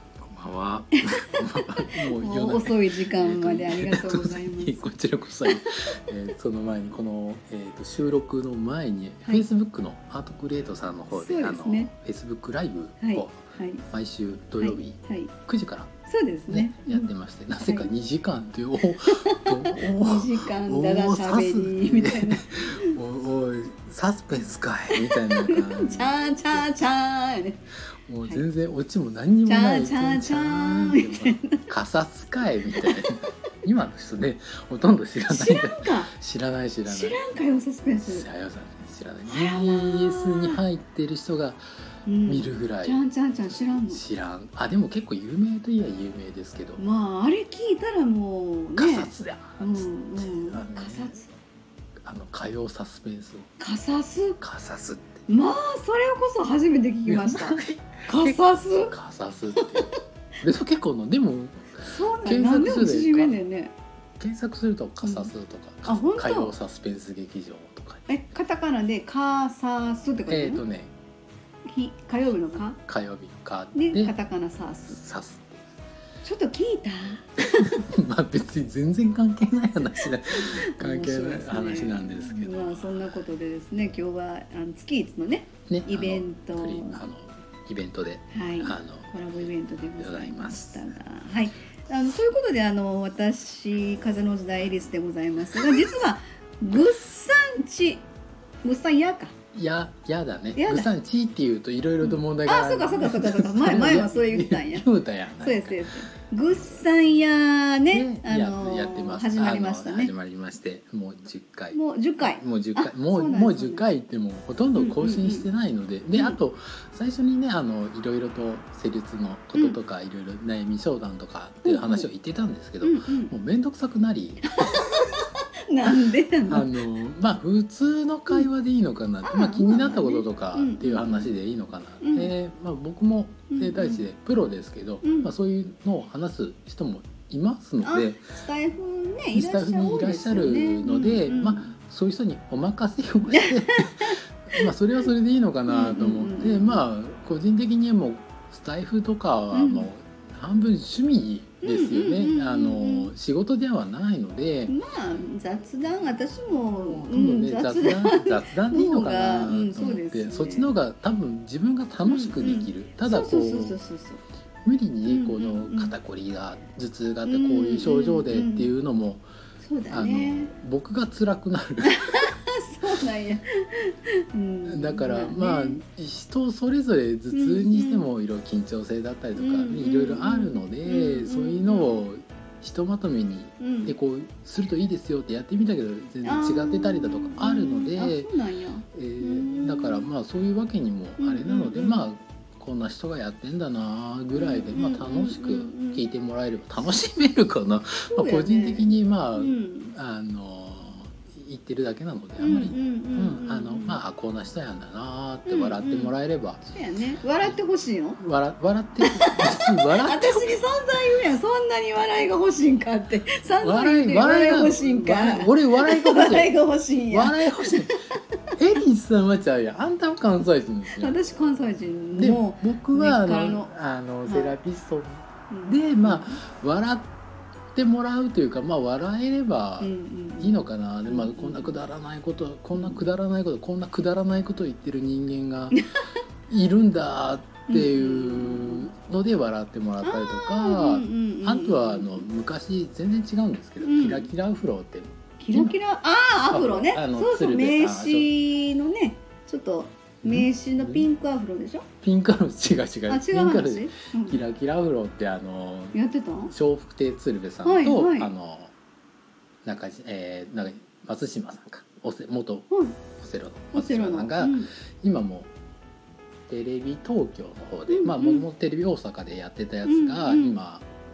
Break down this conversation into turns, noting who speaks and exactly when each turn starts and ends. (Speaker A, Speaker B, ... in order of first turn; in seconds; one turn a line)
Speaker A: 0.2-13.4
Speaker B: 2.0-4.9
Speaker B: 5.5-5.8
Speaker B: 11.1-11.9
Speaker B: 13.0-13.8
Speaker A: 13.9-15.9
Speaker B: 14.6-15.3
Speaker B: 16.1-17.1
Speaker A: 16.5-26.6
Speaker B: 17.6-17.9
Speaker B: 19.1-23.0
Speaker B: 24.9-27.6
Speaker A: 28.1-37.3
Speaker B: 29.4-31.6
Speaker B: 32.8-33.0
Speaker B: 35.3-36.1
Speaker B: 36.8-38.2
Speaker A: 38.0-41.6
Speaker B: 39.3-40.6
Speaker B: 42.0-44.0
Speaker A: 42.2-46.8
Speaker B: 46.8-51.3
Speaker A: 48.8-51.1
Speaker A: 52.0-53.5
Speaker B: 53.6-54.4
Speaker A: 54.4-55.2
Speaker B: 55.3-58.9
Speaker A: 57.0-63.4
Speaker B: 59.5-60.0
Speaker B: 61.9-63.7
Speaker A: 64.2-68.2
Speaker B: 65.0-65.3
Speaker B: 65.8-66.5
Speaker B: 68.1-70.6
Speaker A: 70.3-70.9
Speaker B: 71.7-72.8
Speaker A: 72.9-74.1
Speaker B: 73.7-75.0
Speaker A: 74.9-75.5
Speaker B: 76.2-77.8
Speaker A: 77.4-83.2
Speaker B: 80.0-87.0
Speaker A: 85.7-90.9
Speaker B: 88.3-98.0
Speaker A: 95.6-95.8
Speaker B: 98.6-99.3
Speaker A: 99.5-105.8
Speaker B: 100.5-100.9
Speaker B: 102.0-104.9
Speaker B: 105.4-110.1
Speaker A: 107.9-125.0
Speaker B: 111.7-113.8
Speaker B: 114.8-115.5
Speaker B: 121.6-122.1
Speaker B: 122.8-123.3
Speaker B: 124.5-126.8
Speaker A: 126.5-138.2
Speaker B: 129.2-131.3
Speaker B: 132.0-132.3
Speaker B: 133.5-134.0
Speaker B: 135.0-135.3
Speaker B: 137.8-141.7
Speaker A: 139.3-154.7
Speaker B: 143.3-144.7
Speaker B: 145.7-146.8
Speaker B: 149.5-149.9
Speaker B: 151.6-153.1
Speaker B: 154.7-160.7
Speaker A: 156.8-163.8
Speaker B: 162.0-164.2
Speaker A: 164.6-169.2
Speaker B: 165.1-165.9
Speaker B: 167.2-168.7
Speaker B: 169.6-170.5
Speaker A: 169.9-172.0
Speaker B: 171.8-175.8
Speaker A: 174.7-188.3
Speaker B: 177.3-178.1
Speaker B: 179.3-182.0
Speaker B: 183.6-183.9
Speaker B: 186.2-190.0
Speaker A: 188.9-206.6
Speaker B: 191.2-192.1
Speaker B: 194.3-196.0
Speaker B: 198.1-199.9
Speaker B: 202.4-204.0
Speaker B: 205.4-206.1
Speaker B: 206.7-208.2
Speaker A: 208.2-210.6
Speaker B: 209.0-218.2
Speaker A: 213.6-216.6
Speaker A: 217.1-217.9
Speaker A: 218.6-221.6
Speaker B: 220.9-223.7
Speaker A: 222.1-227.1
Speaker B: 224.3-224.6
Speaker B: 225.5-226.4
Speaker A: 227.7-235.8
Speaker B: 229.8-231.8
Speaker B: 232.7-233.0
Speaker A: 236.5-245.7
Speaker B: 237.7-238.9
Speaker B: 240.0-242.3
Speaker B: 243.8-244.3
Speaker B: 245.4-251.8
Speaker A: 246.5-248.3
Speaker A: 250.2-251.1
Speaker A: 252.0-258.7
Speaker B: 253.1-254.4
Speaker B: 255.9-256.5
Speaker B: 257.6-258.3
Speaker A: 259.6-265.5
Speaker B: 262.7-263.0
Speaker B: 263.7-264.7
Speaker A: 266.5-270.9
Speaker B: 267.9-268.4
Speaker B: 269.8-270.6